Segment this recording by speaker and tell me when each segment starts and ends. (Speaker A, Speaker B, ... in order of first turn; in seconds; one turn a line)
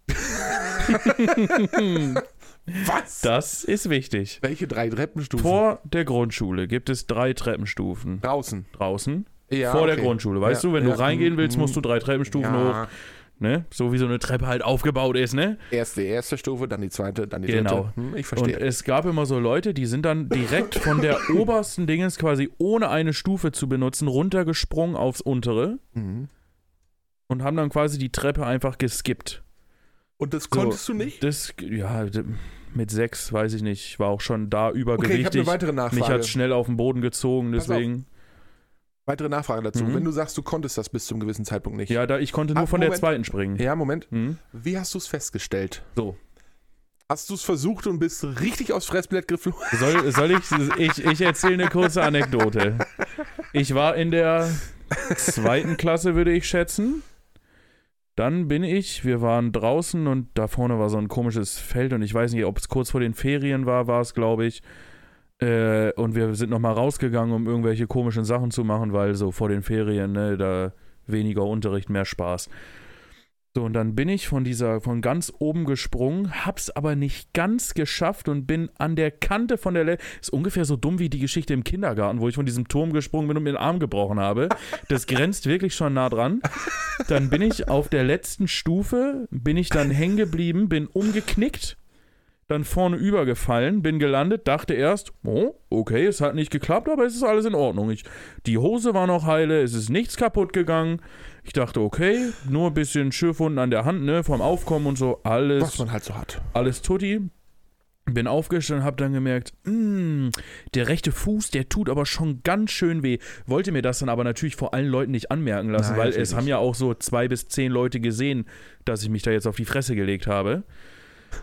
Speaker A: 0.2-3.3
Speaker B: 0.8-2.2
Speaker B: 3.2-4.4
Speaker A: 4.4-5.6
Speaker B: 5.4-12.8
Speaker A: 8.2-8.7
Speaker A: 9.5-12.9
Speaker B: 13.4-15.6
Speaker A: 15.7-18.6
Speaker B: 17.4-25.8
Speaker A: 25.9-26.3
Speaker B: 27.3-29.4
Speaker A: 30.2-31.2
Speaker B: 30.5-38.1
Speaker A: 35.0-36.4
Speaker A: 37.5-37.9
Speaker A: 39.0-42.0
Speaker B: 39.7-40.1
Speaker B: 41.9-44.4
Speaker A: 42.5-45.9
Speaker A: 47.1-50.1
Speaker B: 49.7-52.9
Speaker B: 53.5-57.0
Speaker B: 58.1-64.6
Speaker B: 65.4-72.5
Speaker B: 73.5-91.8
Speaker B: 92.5-105.8
Speaker A: 105.6-106.5
Speaker B: 106.5-107.3
Speaker B: 108.1-120.6
Speaker A: 115.8-116.5